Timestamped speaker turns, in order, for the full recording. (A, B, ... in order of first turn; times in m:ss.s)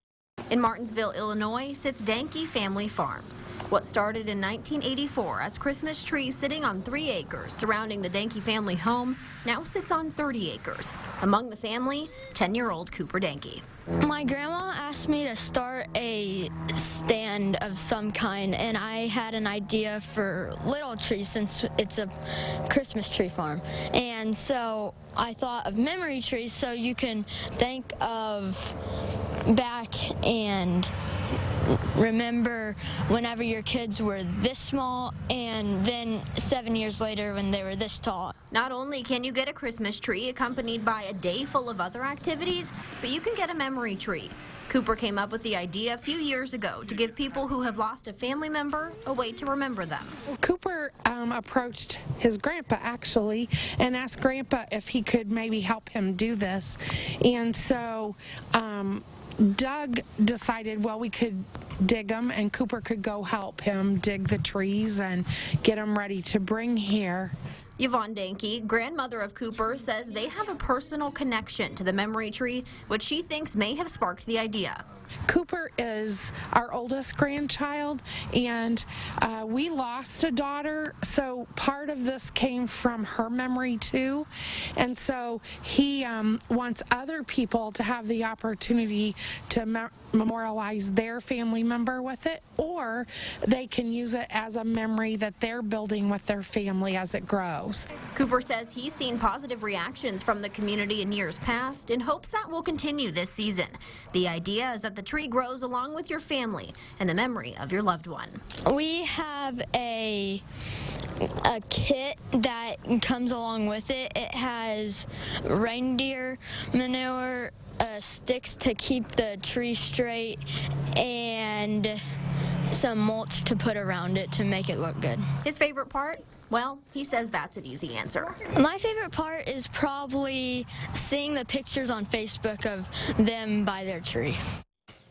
0:00.5-0:13.6 A
0:14.0-0:28.7 B
0:29.4-0:30.9 B
0:31.6-0:38.3 B
0:38.5-0:50.1 A
0:50.4-1:07.3 C
1:07.8-1:14.8 A
1:15.3-1:37.8 C
1:38.1-1:48.4 A
1:48.6-1:50.4 B
1:51.2-2:00.4 B
2:00.9-2:02.0 B
2:02.7-2:05.2 B
2:05.4-2:08.4 A
2:08.5-2:14.4 B